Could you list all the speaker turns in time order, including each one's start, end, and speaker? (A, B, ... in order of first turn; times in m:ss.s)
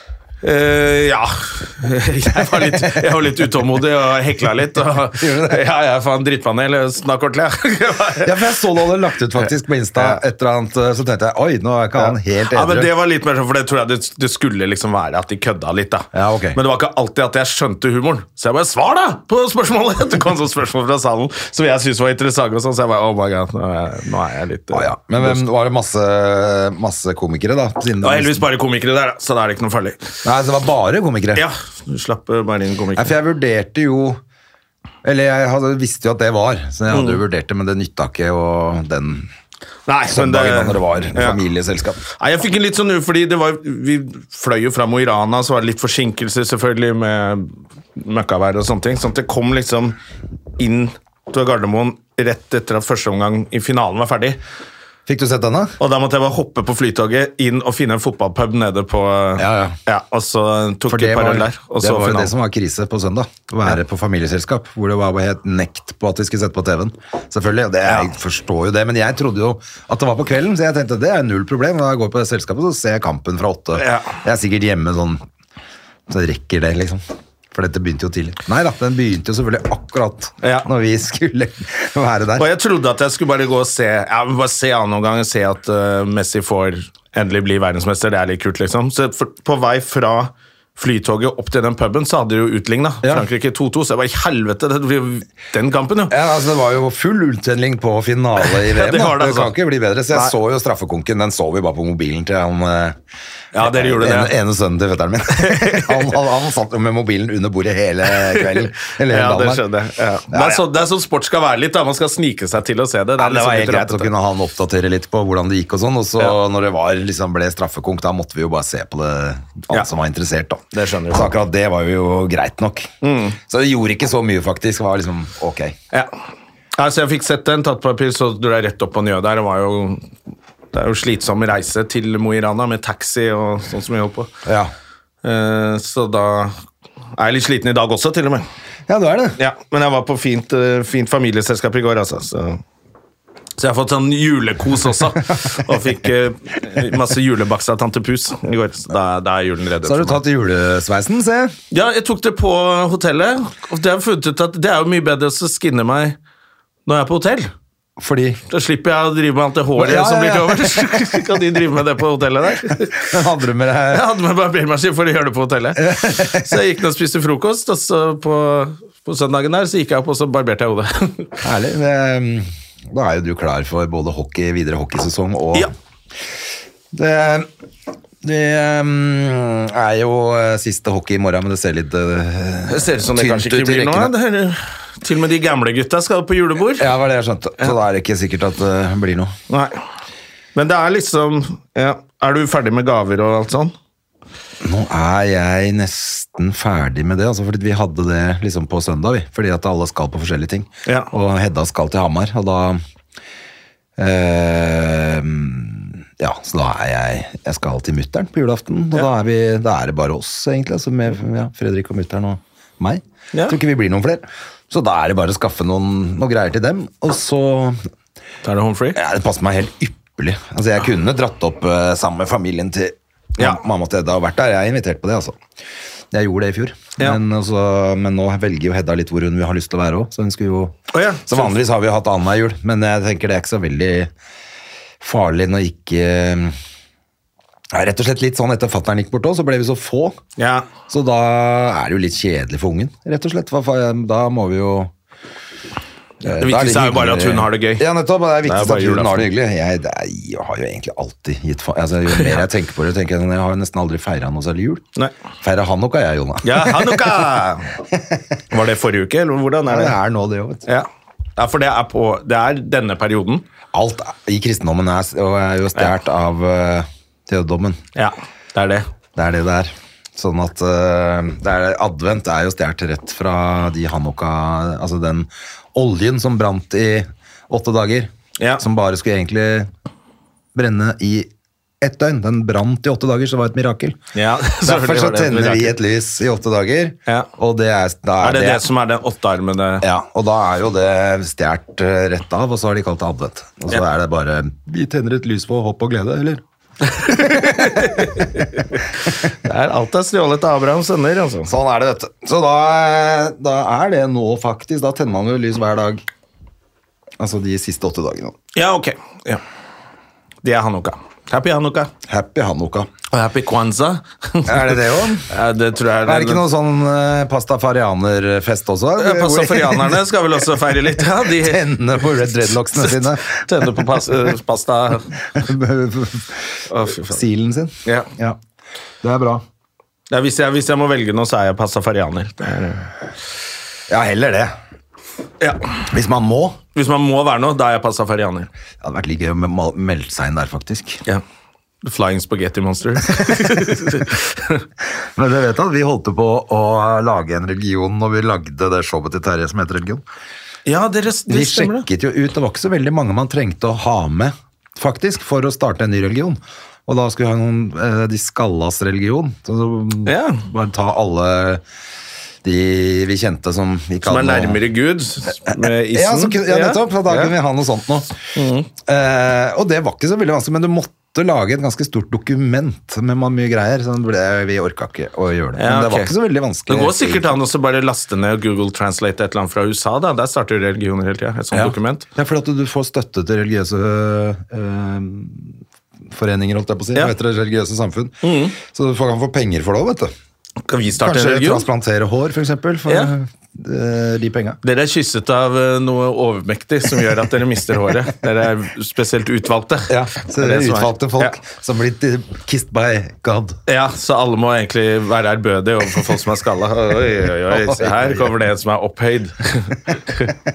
0:00.4-0:08.6 A
0:02.5-0:03.1 B
0:05.2-0:05.6 B
0:08.2-0:12.9 B
0:12.0-0:25.4 A
0:16.1-0:16.6 B
0:24.7-0:28.4 B
0:28.0-0:30.0 A
0:30.2-0:31.4 B
0:31.4-0:33.2 A
0:33.0-0:34.2 B
0:35.0-0:39.3 B
0:36.9-0:37.2 A
0:39.9-0:41.4 A
0:40.1-0:42.0 B
0:42.1-0:50.0 A
0:50.6-0:54.4 A
0:55.1-0:55.8 B
0:55.8-1:02.3 A
0:59.4-0:59.8 B
1:00.9-1:15.2 B
1:13.8-1:14.2 A
1:16.1-1:22.5 B
1:22.4-1:36.2 A
1:36.1-1:43.0 B
1:38.5-1:39.5 A
1:43.5-1:44.3 A
1:43.6-1:49.6 B
1:45.4-1:46.2 A
1:48.4-1:54.1 A
1:50.3-1:50.6 B
1:53.2-2:05.8 B
2:00.7-2:01.3 A
2:03.0-2:03.4 A
2:06.8-2:10.1 A
2:10.7-2:14.3 A
2:14.4-2:14.7 B
2:15.2-2:16.6 A
2:17.2-2:18.4 A
2:18.9-2:19.4 B
2:19.4-2:22.6 A
2:23.6-2:30.2 A
2:29.8-2:31.6 B
2:31.7-2:36.2 A
2:36.9-2:37.5 A
2:38.0-2:38.4 B
2:38.5-2:43.1 A
2:39.8-2:41.0 B
2:43.0-2:44.1 B
2:43.9-2:51.4 A
2:45.8-2:46.6 B
2:51.4-2:55.7 B
2:56.9-2:57.5 B
2:58.2-3:04.2 B
3:02.7-3:06.9 A
3:06.8-3:09.4 B
3:09.5-3:09.8 A
3:10.6-3:13.7 A
3:14.6-3:22.8 B
3:24.0-3:37.8 B
3:38.4-3:39.0 A
3:39.0-3:45.4 B
3:46.1-3:54.1 B
3:50.9-3:51.6 A
3:55.0-3:56.6 B
3:57.7-4:00.2 B
4:00.4-4:00.7 A
4:00.9-4:04.9 B
4:06.2-4:14.8 B
4:06.3-4:07.8 A
4:08.4-4:09.3 A
4:15.4-4:17.4 B
4:16.4-4:17.7 A
4:17.9-4:18.2 B
4:18.5-4:20.0 A
4:19.7-4:20.7 B
4:20.7-4:23.4 A
4:23.7-4:27.8 B
4:28.0-4:28.9 A
4:29.2-4:39.7 B
4:38.4-4:38.6 A
4:40.6-4:41.3 B
4:41.8-4:44.0 B
4:44.1-4:45.8 A
4:44.6-4:48.7 B
4:48.2-4:49.8 A
4:49.8-4:56.4 B
4:56.8-5:01.5 A
4:57.1-4:58.4 B
5:01.4-5:06.0 B
5:07.2-5:08.4 B
5:08.6-5:09.4 A
5:10.4-5:11.9 A
5:12.1-5:12.9 B
5:13.1-5:16.5 A
5:14.5-5:15.3 B
5:16.0-5:20.0 B
5:19.0-5:21.6 A
5:21.2-5:23.9 B
5:22.7-5:25.1 A
5:25.3-5:28.4 B
5:26.7-5:27.2 A
5:29.0-5:29.4 B
5:30.1-5:32.9 A
5:33.9-5:34.5 B
5:35.4-5:35.7 A
5:35.9-5:36.6 B
5:36.8-5:38.5 A
5:38.8-5:41.0 B
5:41.8-5:44.6 A
5:45.2-5:50.0 B
5:50.7-5:51.9 A
5:51.3-6:01.6 B
6:00.1-6:00.4 A
6:02.4-6:04.6 B
6:04.0-6:07.3 A
6:05.5-6:08.2 B
6:08.4-6:08.7 A
6:08.8-6:17.4 B
6:15.6-6:16.1 A
6:16.7-6:22.1 A
6:21.5-6:25.6 B
6:26.1-6:30.1 B
6:28.2-6:28.6 A
6:30.6-6:31.7 A
6:31.0-6:34.6 B
6:32.9-6:33.1 A
6:34.6-6:41.3 A
6:39.9-6:43.6 B
6:43.7-6:50.3 A
6:47.5-6:48.3 B